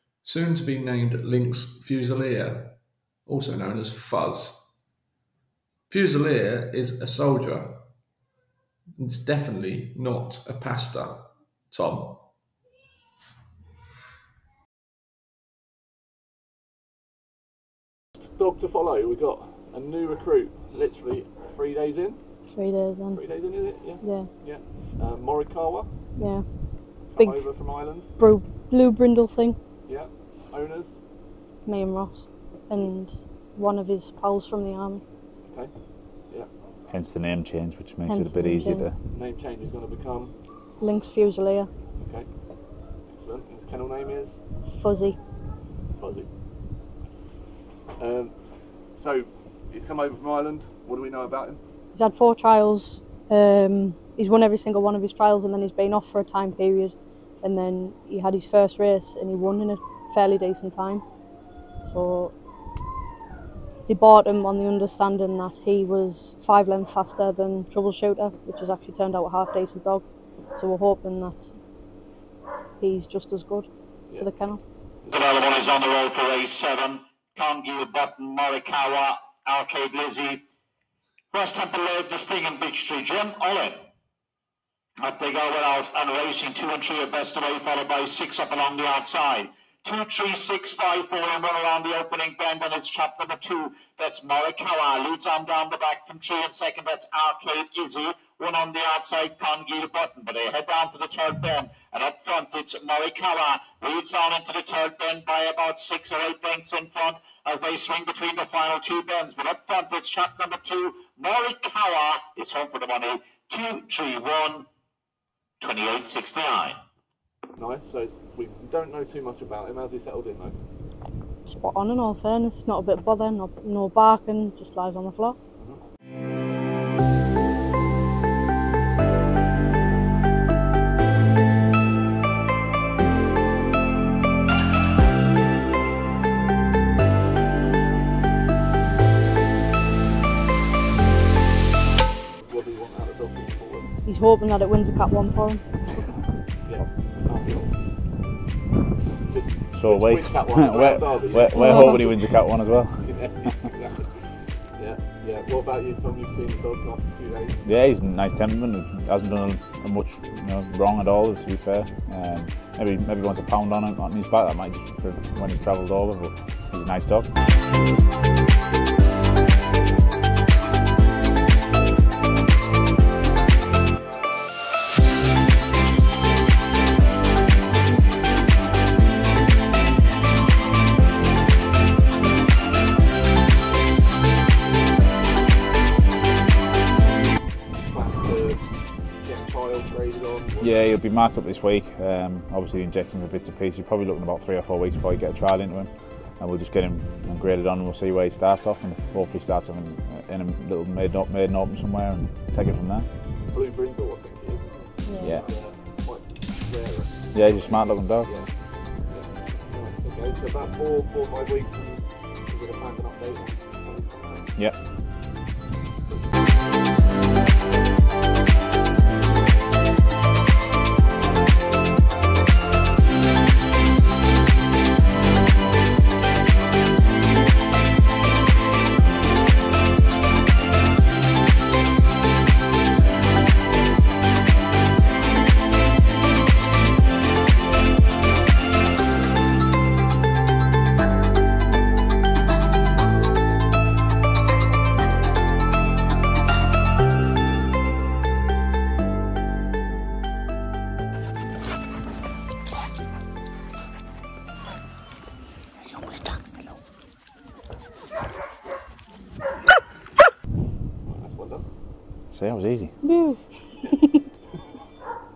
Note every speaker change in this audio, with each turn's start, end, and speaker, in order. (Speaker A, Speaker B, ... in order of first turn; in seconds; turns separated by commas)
Speaker A: 0.2-4.7, Speaker B: 3.3-3.7, Speaker A: 5.9-7.9, Speaker A: 9.0-12.3, Speaker B: 18.3-22.2, Speaker C: 22.5-24.3, Speaker B: 23.1-25.9, Speaker C: 26.2-29.6, Speaker B: 27.1-28.1, Speaker B: 29.8-31.0, Speaker C: 31.6-35.0, Speaker B: 32.8-33.0, Speaker B: 35.4-36.5, Speaker D: 36.9-39.0, Speaker C: 38.0-38.9, Speaker B: 39.1-40.3, Speaker C: 40.8-41.7, Speaker B: 42.0-42.3, Speaker B: 43.0-44.4, Speaker C: 44.6-45.2, Speaker B: 46.0-46.4, Speaker B: 47.9-51.6, Speaker C: 51.9-61.0, Speaker C: 61.8-62.3, Speaker C: 63.9-71.6, Speaker C: 72.8-74.6, Speaker E: 75.1-80.4, Speaker E: 81.3-83.8, Speaker E: 85.0-114.7, Speaker E: 115.6-116.8, Speaker B: 117.6-120.6, Speaker C: 121.4-125.3, Speaker B: 142.4-143.9, Speaker C: 144.0-146.0, Speaker B: 146.6-147.8, Speaker B: 149.2-152.1, Speaker D: 149.8-153.1, Speaker C: 151.5-152.1, Speaker B: 153.0-154.2, Speaker B: 154.8-157.6, Speaker D: 157.6-167.3, Speaker B: 187.7-188.6, Speaker B: 189.2-190.9, Speaker D: 190.6-203.1, Speaker B: 203.5-214.5, Speaker C: 205.0-205.3, Speaker D: 205.2-205.5, Speaker D: 207.3-208.3, Speaker D: 256.0-256.5, Speaker B: 261.1-261.6, Speaker D: 262.3-262.9, Speaker C: 263.0-264.2